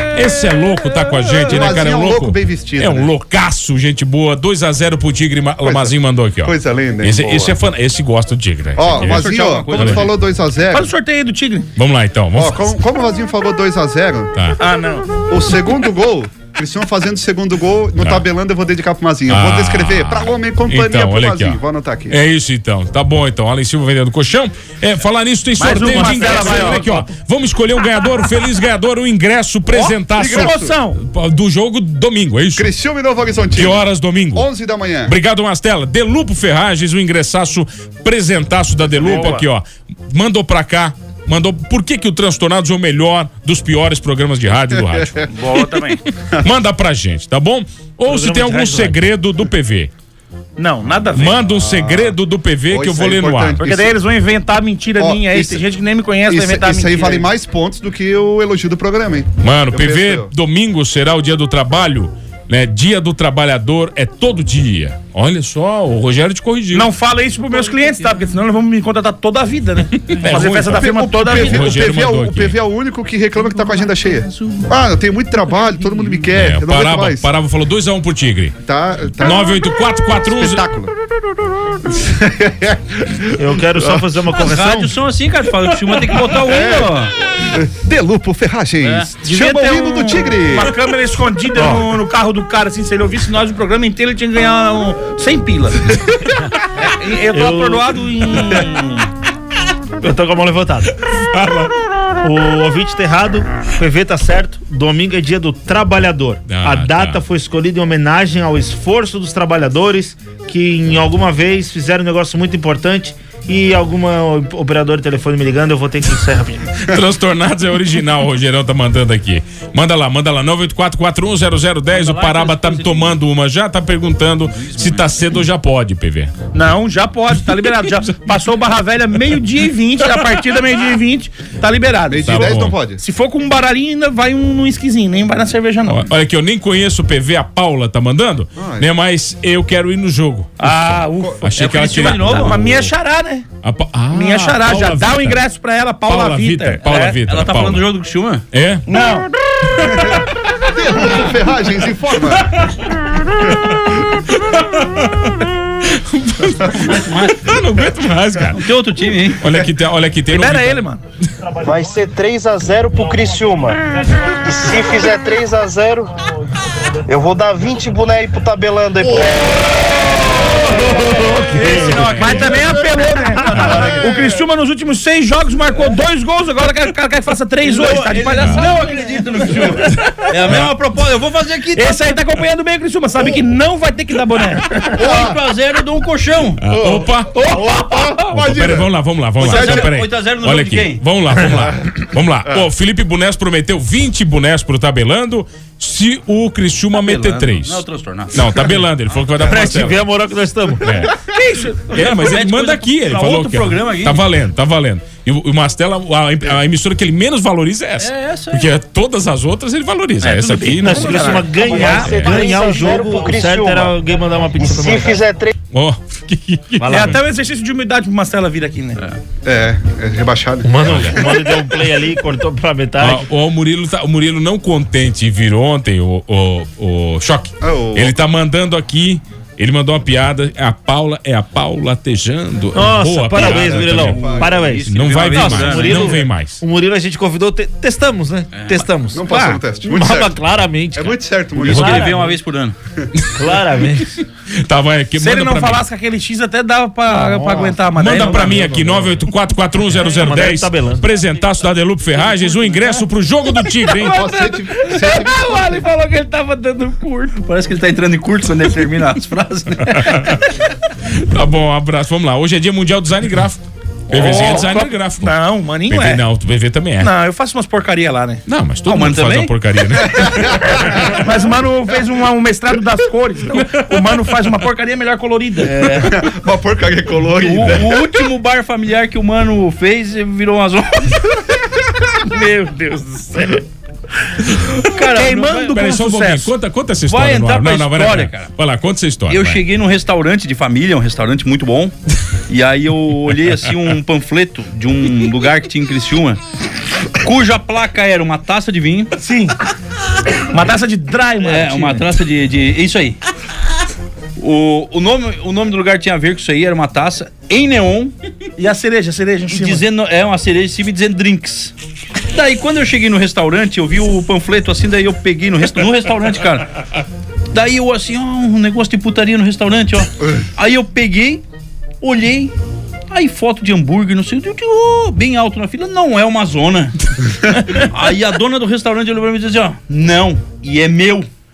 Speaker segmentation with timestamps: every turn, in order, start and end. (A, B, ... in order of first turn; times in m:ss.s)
0:00.1-0:10.0 A
0:01.4-0:03.1 B
0:05.6-0:07.5 B
0:08.8-0:10.9 B
0:08.9-0:10.1 C
0:10.7-0:11.7 D
0:11.8-0:12.7 A
0:12.3-0:14.3 B
0:14.6-0:15.2 D
0:15.3-0:22.2 B
0:19.3-0:32.7 A
0:25.6-0:27.1 D
0:29.7-0:31.0 D
0:30.2-0:30.7 B
0:32.6-0:35.1 B
0:33.5-0:34.5 A
0:35.0-0:45.3 A
0:39.0-0:39.5 D
0:44.9-0:45.2 B
0:45.3-0:46.0 D
0:46.4-0:49.9 A
0:48.0-0:49.1 E
0:50.6-0:51.5 D
0:51.1-0:53.7 A
0:51.6-0:52.2 B
0:52.7-0:53.9 B
0:53.6-0:57.2 D
0:55.0-0:55.6 B
0:56.3-1:00.3 B
0:59.4-1:06.9 A
1:06.7-1:11.9 D
1:07.5-1:08.2 C
1:10.0-1:12.6 A
1:10.6-1:17.2 B
1:13.6-1:14.6 C
1:16.3-1:18.6 A
1:18.6-1:19.6 B
1:19.2-1:20.6 A
1:20.2-1:20.9 B
1:21.9-1:24.0 B
1:23.3-1:24.9 E
1:24.3-1:27.1 C
1:26.4-1:26.9 B
1:27.5-1:30.7 B
1:28.8-1:29.1 C
1:29.1-1:35.9 D
1:36.8-1:39.1 D
1:37.3-1:38.0 E
1:40.0-1:40.9 E
1:41.4-1:41.7 A
1:42.2-1:56.6 E
1:46.5-1:47.2 A
1:56.8-2:06.3 A
2:01.9-2:03.2 C
2:04.5-2:05.2 C
2:06.5-2:16.0 D
2:12.1-2:13.0 B
2:12.2-2:12.8 A
2:15.8-2:22.8 A
2:18.6-2:18.9 B
2:20.6-2:23.5 D
2:21.6-2:22.9 C
2:23.6-2:25.4 A
2:24.1-2:27.2 D
2:26.0-2:27.9 A
2:26.8-2:28.4 C
2:28.5-2:28.8 A
2:28.9-2:29.3 D
2:30.6-2:32.6 B
2:35.0-2:35.3 A
2:35.8-2:38.6 A
2:36.8-2:37.5 C
2:38.6-2:39.4 C
2:39.4-2:40.8 A
2:40.3-2:41.0 D
2:41.6-2:43.8 F
2:44.3-2:46.1 F
2:47.1-2:49.8 F
2:50.4-3:00.0 D
2:50.6-2:51.3 F
2:51.6-2:52.0 E
2:51.9-2:52.3 C
2:52.2-2:52.4 A
2:53.5-2:54.0 C
2:57.6-3:02.1 C
3:01.7-3:05.1 D
3:04.8-3:06.6 C
3:04.9-3:05.4 B
3:06.6-3:07.3 A
3:06.7-3:09.9 B
3:07.3-3:08.4 D
3:08.3-3:17.8 A
3:09.4-3:11.0 C
3:17.0-3:19.2 C
3:18.3-3:20.0 A
3:19.4-3:21.0 E
3:20.8-3:21.2 A
3:21.2-3:22.1 D
3:21.9-3:31.4 A
3:21.9-3:24.3 C
3:28.0-3:28.7 C
3:30.2-3:32.1 D
3:30.8-3:35.2 E
3:31.6-3:34.0 F
3:32.0-3:32.4 A
3:34.5-3:35.5 F
3:35.7-3:37.2 A
3:36.8-3:39.0 D
3:39.4-3:41.5 B
3:40.6-3:43.3 E
3:40.9-3:41.2 A
3:43.0-3:56.6 A
3:47.6-3:48.2 B
3:52.7-4:02.4 E
3:53.5-3:54.5 B
3:54.1-3:56.2 C
3:58.6-3:58.8 C
3:59.1-4:00.4 B
4:00.9-4:02.1 B
4:01.6-4:02.8 C
4:03.3-4:04.2 E
4:04.6-4:05.8 A
4:05.2-4:08.6 D
4:07.1-4:09.2 E
4:07.9-4:14.2 A
4:10.1-4:11.1 E
4:13.6-4:17.4 D
4:14.0-4:15.8 B
4:17.4-4:20.4 C
4:21.1-4:27.1 A
4:24.1-4:26.2 D
4:27.0-4:28.4 D
4:28.5-4:30.5 A
4:28.8-4:29.5 C
4:30.2-4:30.5 B
4:31.1-4:36.0 D
4:35.6-4:36.2 C
4:36.0-4:38.1 B
4:37.4-4:41.3 C
4:42.3-4:43.6 D
4:44.9-4:45.7 C
4:45.0-4:46.5 D
4:45.6-4:49.6 A
4:47.1-4:48.5 C
4:49.3-4:51.9 C
4:52.5-4:56.4 C
4:57.2-4:59.1 C
4:59.2-4:59.5 D
5:00.5-5:02.0 D
5:01.4-5:03.2 C
5:04.4-5:08.1 C
5:08.6-5:09.8 D
5:09.5-5:11.7 C
5:12.3-5:16.7 C
5:17.5-5:21.4 C
5:22.0-5:22.5 C
5:23.1-5:27.0 C
5:27.7-5:31.3 C